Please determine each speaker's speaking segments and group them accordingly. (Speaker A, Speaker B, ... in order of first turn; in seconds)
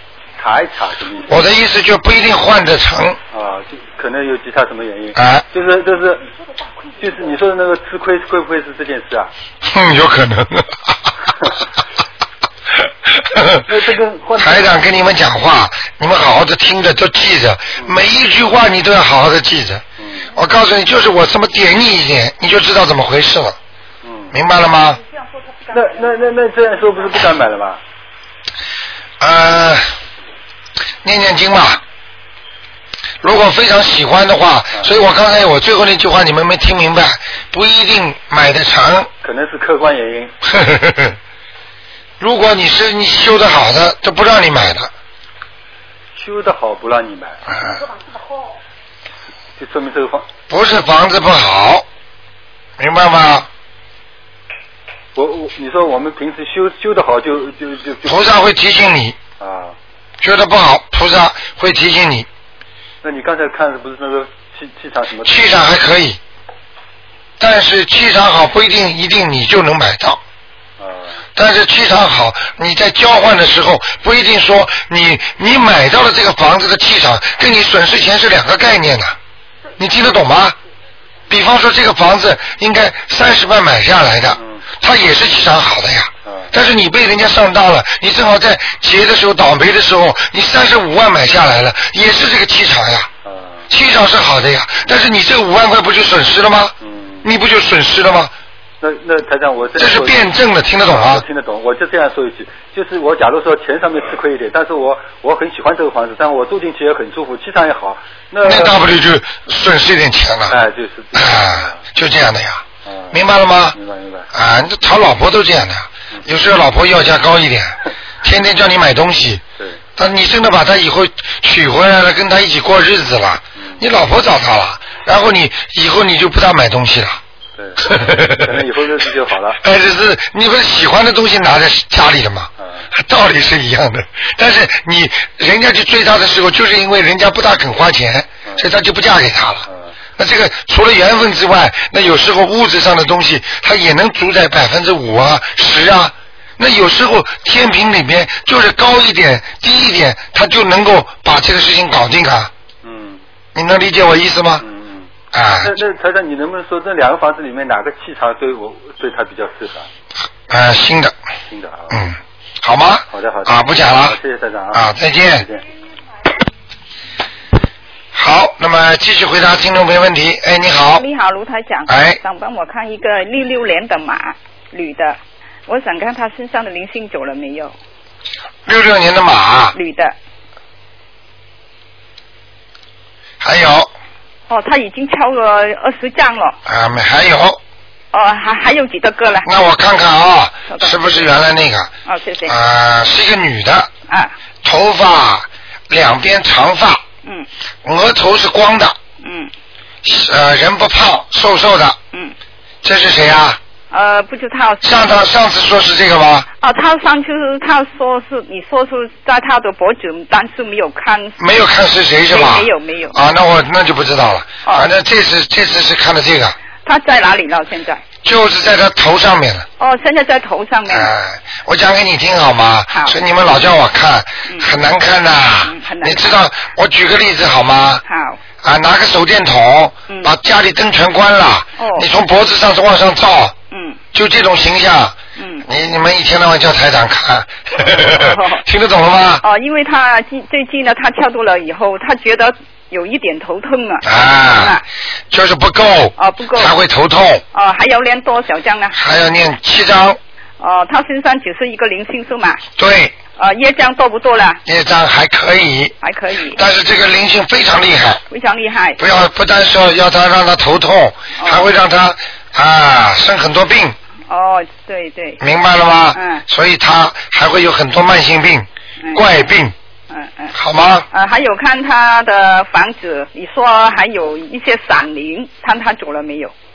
Speaker A: 0.4-1.5, 3.3-6.3, 6.9-9.3, 13.7-14.9, 17.8-18.0, 20.0-20.3, 24.0-24.4, 25.7-27.8, 39.2-40.4, 46.2-47.5, 49.6-50.3, 55.1-58.2, 59.4-59.8, 63.0-65.6, 70.8-71.2, 84.3-84.7, 86.2-86.5, 93.2-93.7, 96.8-97.3, 98.8-108.9, 110.5-111.8, 112.8-114.3, 119.6-119.8, 123.5-123.9, 127.6-129.6, 132.6-132.9, 138.4-138.7, 139.7-139.9, 152.8-153.2, 154.6-155.1, 155.6-159.9, 161.5-162.0, 163.1-165.6
Speaker B: 1.3-3.2, 5.2-5.5, 9.6-10.8, 13.1-13.7, 14.4-23.6, 24.3-25.0, 29.2-29.9, 31.0-31.8, 33.2-39.1, 40.5-41.2, 42.2-44.9, 50.5-51.9, 52.8-53.5, 58.0-59.2, 60.2-62.3, 65.2-66.2, 67.4-70.2, 71.3-79.2, 79.8-80.6, 81.3-93.1, 93.7-98.3, 99.8-101.2, 108.4-110.6, 111.2-113.8, 114.3-119.4, 120.0-127.2, 127.8-128.6, 129.6-139.7, 140.2-152.5, 153.6-154.6, 155.3-155.7, 160.5-161.1, 161.9-164.2, 164.7-165.4, 168.1-171.0, 171.9-172.2, 178.7-179.8, 183.4-183.9, 186.7-187.6, 189.4-191.9, 192.5-193.9, 194.6-197.0, 197.8-199.0, 200.0-202.0, 202.8-203.6, 204.8-206.5, 211.4-216.6, 218.2-219.7, 220.9-228.0, 228.6-233.5, 234.1-239.4, 244.0-247.4, 248.9-250.2, 252.8-253.2, 254.7-255.9, 256.5-258.2, 259.0-264.0, 265.4-269.7, 270.5-271.1
Speaker C: 171.0-177.7, 179.7-180.2, 184.5-186.6, 188.1-189.5, 190.7-191.2, 192.1-192.6, 199.2-199.5, 203.9-205.1, 206.6-211.4, 212.3-213.2, 214.6-214.9, 216.8-218.0, 219.8-221.1, 222.9-223.2, 225.7-226.4, 228.1-228.4, 231.8-232.1, 233.7-234.0, 235.4-235.7, 237.8-238.6, 239.4-244.8, 246.2-246.7, 247.5-249.0, 250.6-252.6, 253.4-254.6, 256.0-256.6, 258.3-259.0, 261.4-261.7, 264.3-265.4, 266.1-266.4, 269.0-269.5, 270.1-270.5, 271.1-276.5